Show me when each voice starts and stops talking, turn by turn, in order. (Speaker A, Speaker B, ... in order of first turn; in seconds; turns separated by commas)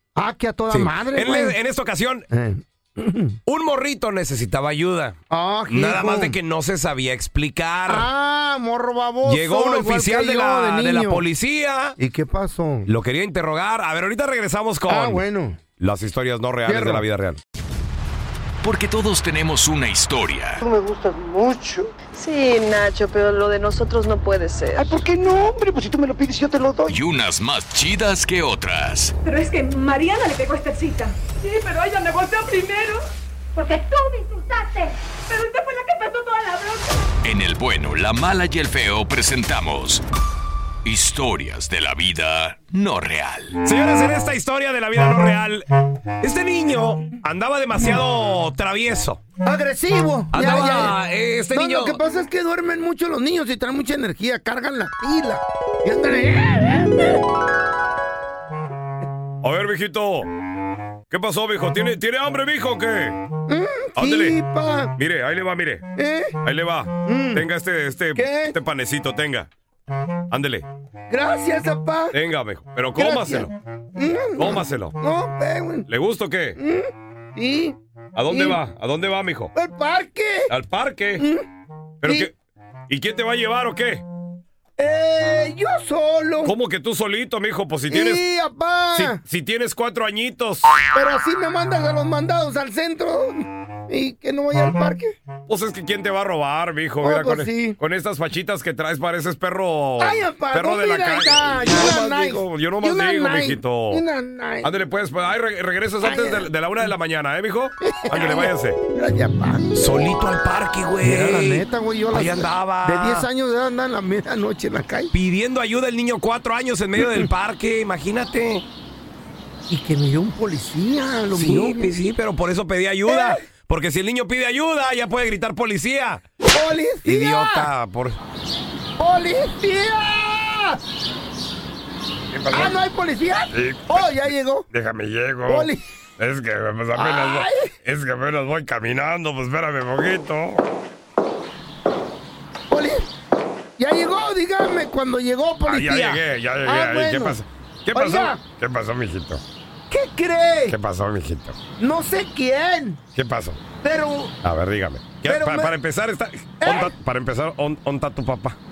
Speaker A: 0.1-1.6, Speaker B: 0.7-2.3, Speaker A: 2.3-3.4, Speaker B: 3.5-5.2, Speaker A: 5.3-6.4, Speaker B: 5.7-8.1, Speaker A: 7.9-11.2, Speaker B: 9.2-12.0, Speaker A: 12.0-12.9, Speaker B: 12.9-15.2, Speaker A: 14.9-15.6, Speaker B: 15.8-17.4, Speaker A: 16.7-17.1, Speaker C: 18.6-20.6, Speaker D: 20.6-21.9, Speaker E: 22.1-24.9, Speaker D: 24.8-27.0, Speaker C: 26.9-29.1, Speaker F: 29.2-37.1, Speaker C: 37.2-40.0, Speaker C: 40.8-43.6, Speaker B: 43.6-45.7, Speaker B: 46.2-49.2, Speaker A: 49.4-51.0, Speaker B: 50.3-52.0, Speaker A: 51.5-57.2, Speaker B: 59.4-60.3, Speaker B: 61.1-63.2, Speaker A: 63.5-65.0, Speaker B: 64.0-64.4, Speaker B: 65.0-65.9, Speaker A: 66.0-66.4, Speaker B: 66.4-69.5, Speaker A: 67.0-67.5, Speaker A: 68.1-68.6, Speaker B: 70.3-70.7, Speaker A: 71.1-72.2, Speaker B: 72.1-73.5, Speaker A: 73.0-75.9, Speaker B: 74.4-75.0, Speaker B: 75.9-76.6, Speaker A: 76.6-77.8, Speaker B: 78.2-79.5, Speaker A: 78.3-78.6, Speaker A: 79.5-80.5, Speaker B: 80.5-81.3, Speaker A: 81.2-81.5, Speaker B: 82.0-82.3, Speaker A: 82.0-82.3, Speaker B: 82.9-84.0, Speaker A: 84.8-86.5, Speaker B: 86.4-88.2, Speaker A: 87.9-89.2, Speaker B: 89.0-90.7, Speaker A: 90.9-95.2, Speaker B: 95.5-104.0, Speaker A: 97.0-97.8, Speaker A: 100.0-104.7, Speaker B: 104.6-108.8, Speaker A: 106.0-106.5, Speaker A: 107.8-109.7, Speaker B: 109.7-113.3, Speaker A: 111.0-115.1, Speaker B: 115.1-118.6, Speaker A: 117.0-117.3, Speaker A: 119.7-121.9, Speaker B: 121.3-126.2, Speaker A: 123.0-123.4, Speaker A: 126.5-127.7, Speaker B: 127.0-128.2, Speaker A: 129.0-130.8, Speaker B: 132.3-132.8, Speaker A: 132.5-134.7, Speaker B: 133.5-134.1, Speaker B: 134.7-140.6, Speaker A: 135.4-135.8, Speaker A: 136.9-137.7, Speaker A: 142.7-143.1, Speaker A: 143.8-147.4, Speaker B: 145.6-149.4, Speaker A: 147.9-148.4, Speaker A: 149.9-150.8, Speaker B: 150.7-151.6, Speaker A: 151.8-153.0, Speaker B: 153.1-153.6, Speaker A: 153.8-154.3, Speaker B: 154.4-158.6, Speaker A: 155.2-155.8, Speaker A: 156.6-156.9